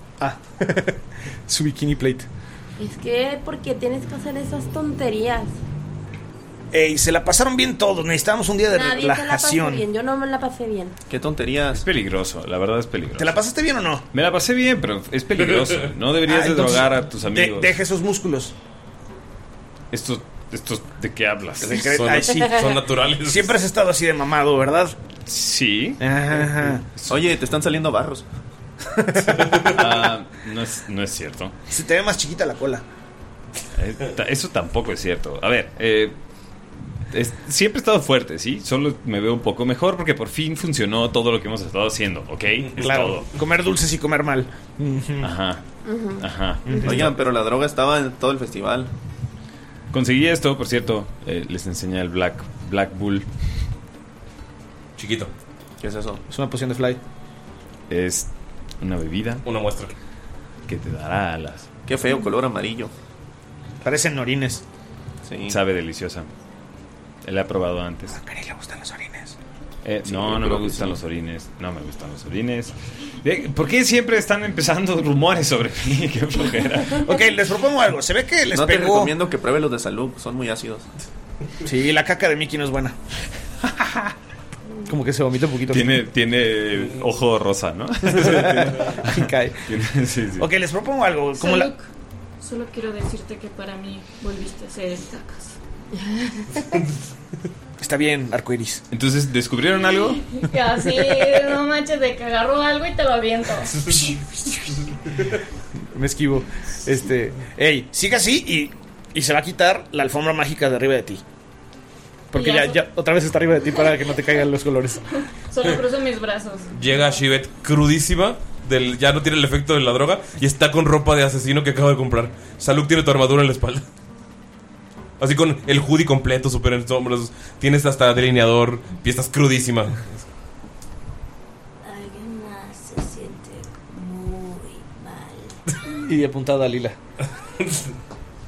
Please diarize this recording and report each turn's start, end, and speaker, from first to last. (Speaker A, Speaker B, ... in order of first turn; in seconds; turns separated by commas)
Speaker A: 0.2-2.3, Speaker B: 2.8-5.6, Speaker A: 6.7-9.8, Speaker B: 8.7-10.9, Speaker C: 11.1-11.8, Speaker D: 11.7-13.4, Speaker A: 13.2-14.0, Speaker D: 14.1-17.8, Speaker A: 16.2-18.5, Speaker D: 19.9-21.8, Speaker A: 21.6-24.9, Speaker E: 21.8-23.6, Speaker D: 25.2-26.0, Speaker A: 26.0-26.8, Speaker D: 26.9-27.2, Speaker C: 27.1-28.2, Speaker A: 28.9-29.6, Speaker E: 29.4-29.7, Speaker D: 29.7-31.5, Speaker A: 31.7-32.8, Speaker D: 33.8-36.2, Speaker D: 37.1-43.3, Speaker A: 42.8-45.3, Speaker D: 45.2-45.6, Speaker B: 45.8-46.2, Speaker D: 46.2-46.7, Speaker A: 46.6-47.1, Speaker C: 46.8-48.9, Speaker D: 49.9-53.3, Speaker E: 55.0-55.3, Speaker C: 55.8-56.2, Speaker A: 56.3-57.0, Speaker D: 57.9-59.4, Speaker E: 59.4-59.9, Speaker D: 60.7-61.7, Speaker C: 61.9-62.9, Speaker A: 63.8-64.6, Speaker C: 65.2-65.6, Speaker D: 65.5-66.3, Speaker D: 67.2-68.2, Speaker A: 68.1-69.3, Speaker D: 69.8-77.2, Speaker C: 70.0-71.0, Speaker A: 77.0-79.1, Speaker C: 78.5-80.9, Speaker A: 81.6-83.0, Speaker D: 83.8-84.1, Speaker A: 84.8-86.0, Speaker D: 85.7-90.5, Speaker A: 88.1-89.7, Speaker A: 90.4-91.7, Speaker F: 91.3-91.9, Speaker F: 92.4-95.6, Speaker A: 97.8-98.8, Speaker D: 98.9-100.2, Speaker F: 99.7-104.2, Speaker A: 105.9-111.2, Speaker A: 112.3-115.0, Speaker F: 112.3-112.8, Speaker F: 115.5-116.7, Speaker E: 116.7-123.8, Speaker E: 125.2-130.2, Speaker G: 131.8-135.6, Speaker A: 136.0-136.9